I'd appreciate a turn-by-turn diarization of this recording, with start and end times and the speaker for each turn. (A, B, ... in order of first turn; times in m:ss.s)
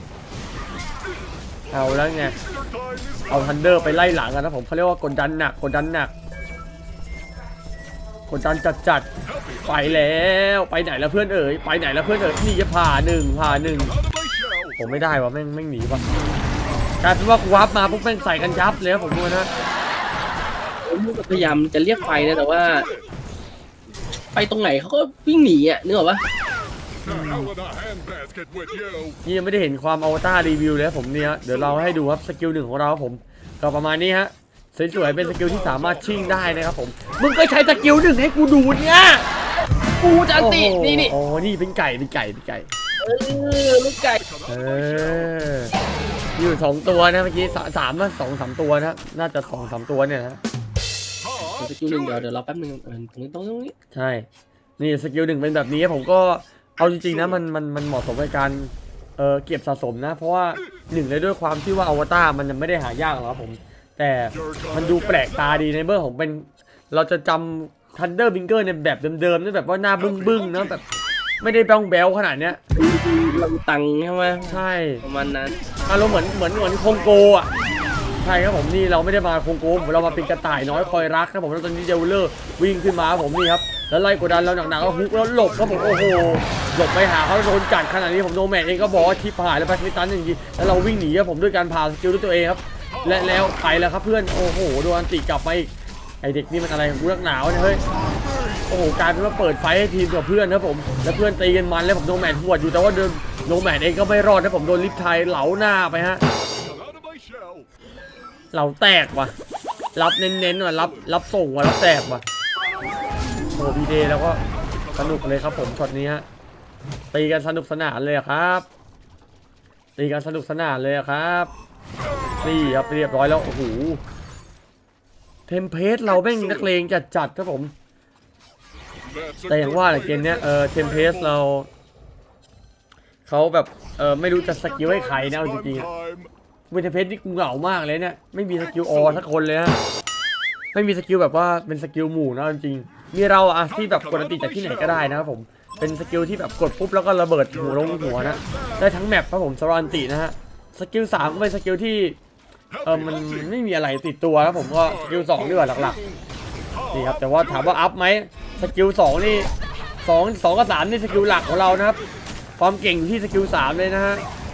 0:01.7-0:02.4 A
0:02.3-0:04.2 B
0:03.3-0:06.1 A
0:08.3-0:09.1 A
0:09.2-0:10.2 B
0:09.7-0:13.9 A
0:13.7-0:15.1 B
0:14.8-0:16.2 A
0:17.0-0:19.5 A
0:17.7-0:19.9 B
0:20.8-0:22.9 C
0:22.0-0:23.1 B
0:24.3-0:26.2 C
0:27.0-0:29.2 B
0:27.0-0:27.5 A
0:29.2-0:39.3 A
0:34.9-0:37.0 B
0:39.9-0:41.2 C
0:40.4-0:42.7 A
0:43.0-0:44.2 C
0:44.0-0:45.4 B
0:44.5-0:45.7 A
0:46.4-0:50.4 A
0:51.2-0:52.2 B
0:51.4-0:53.7 C
0:53.9-0:54.3 A
0:54.8-1:10.8 A
0:56.9-0:57.4 B
1:04.3-1:05.6 B
1:10.0-1:10.8 B
1:11.4-1:12.6 A
1:12.7-1:15.5 C
1:14.5-1:15.0 A
1:15.5-1:17.6 B
1:15.9-1:17.5 A
1:18.2-1:37.8 A
1:19.9-1:21.1 B
1:24.3-1:26.6 B
1:32.9-1:33.5 B
1:37.9-1:38.7 B
1:38.7-1:46.2 A
1:46.3-1:47.7 B
1:48.5-1:49.3 A
1:50.0-1:52.2 A
1:50.8-1:51.1 B
1:53.6-1:54.4 A
1:54.5-1:55.8 B
1:55.0-1:56.3 A
1:57.1-1:58.7 A
2:00.0-2:01.5 A
2:02.1-2:02.8 B
2:02.4-2:04.0 A
2:05.5-2:07.7 A
2:06.1-2:06.7 B
2:09.0-2:11.4 B
2:09.5-2:11.7 A
2:13.3-2:15.9 A
2:14.5-2:16.3 B
2:16.7-2:19.8 A
2:18.6-2:19.3 B
2:20.7-2:32.2 A
2:23.7-2:25.2 B
2:27.5-2:28.9 B
2:32.7-2:33.5 B
2:32.8-2:36.0 A
2:34.8-2:37.8 B
2:36.9-2:39.5 A
2:40.0-2:42.0 A
2:41.2-2:42.1 B
2:42.6-2:44.2 A